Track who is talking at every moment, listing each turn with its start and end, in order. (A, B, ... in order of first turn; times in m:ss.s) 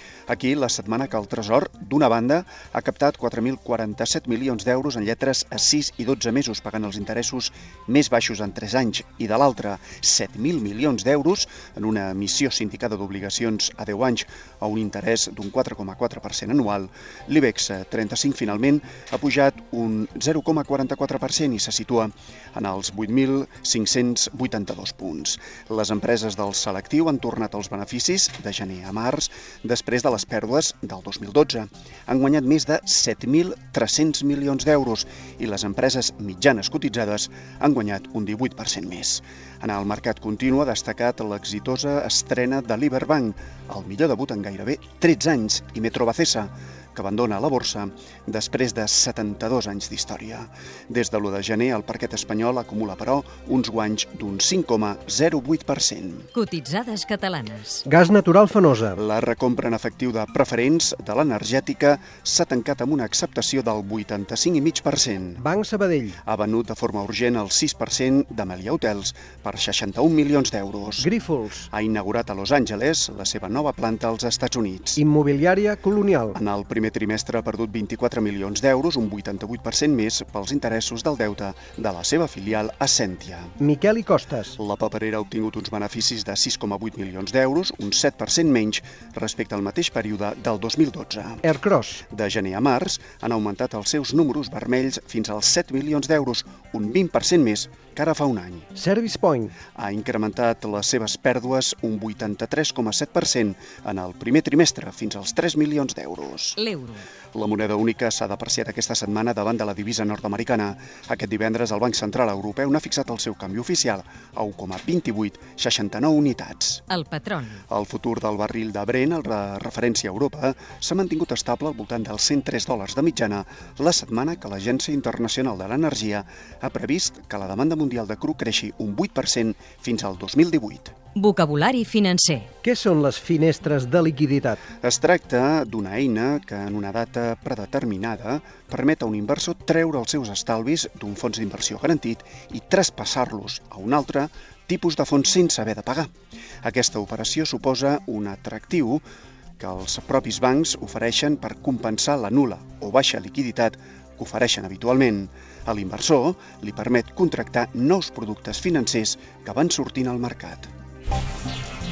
0:00.3-0:56.3 A
0:56.3-0:57.8 B
0:57.9-0:59.0 C
0:59.0-1:05.4 A
1:05.4-1:06.2 C
1:06.2-1:11.1 A
1:11.0-1:11.7 C
1:11.7-1:15.0 A
1:15.0-1:16.4 C
1:16.3-1:23.6 A
1:23.6-1:24.6 C
1:24.6-1:31.5 A
1:31.4-1:32.0 C
1:32.1-1:38.7 A
1:38.8-1:39.5 C
1:39.8-1:46.6 A
1:46.6-1:47.0 B
1:47.3-1:56.9 A
1:56.9-1:57.6 B
1:57.7-2:10.9 A
2:11.2-2:12.5 B
2:12.6-2:14.6 C
2:14.8-2:26.1 A
2:26.6-2:29.0 A
2:29.6-2:40.7 A